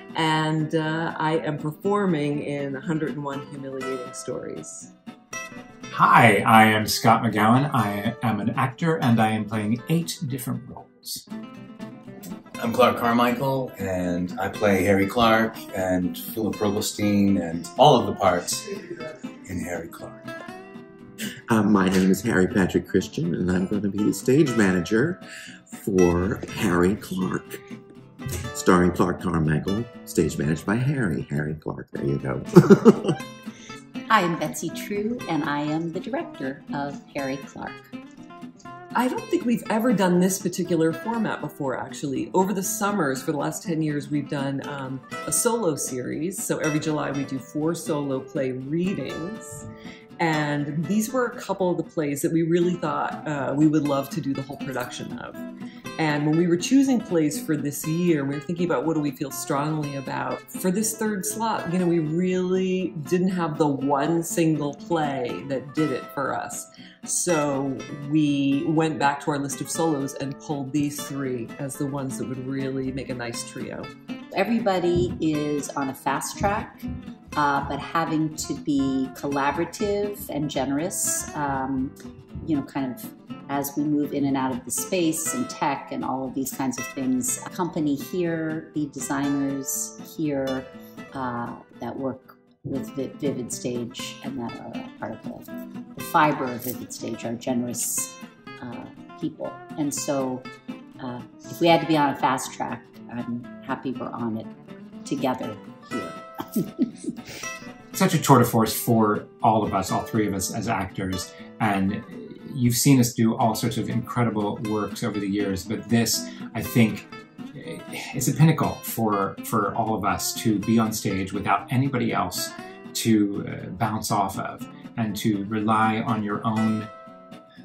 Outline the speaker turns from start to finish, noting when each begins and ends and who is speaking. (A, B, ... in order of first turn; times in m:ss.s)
0:00.1-0:04.9 A
0:05.9-0:11.2 B
0:12.6-0:18.6 C
0:19.4-0:20.2 C
0:21.5-0:25.2 D
0:25.7-0:27.6 D
0:28.5-0:33.2 D
0:34.1-0:37.9 E
0:38.9-0:49.6 A
0:50.2-0:55.4 A
0:56.0-1:13.9 A
1:14.4-1:16.8 E
1:17.4-1:40.4 E
1:41.0-1:44.5 E
1:45.0-1:47.1 E
1:47.9-2:06.9 B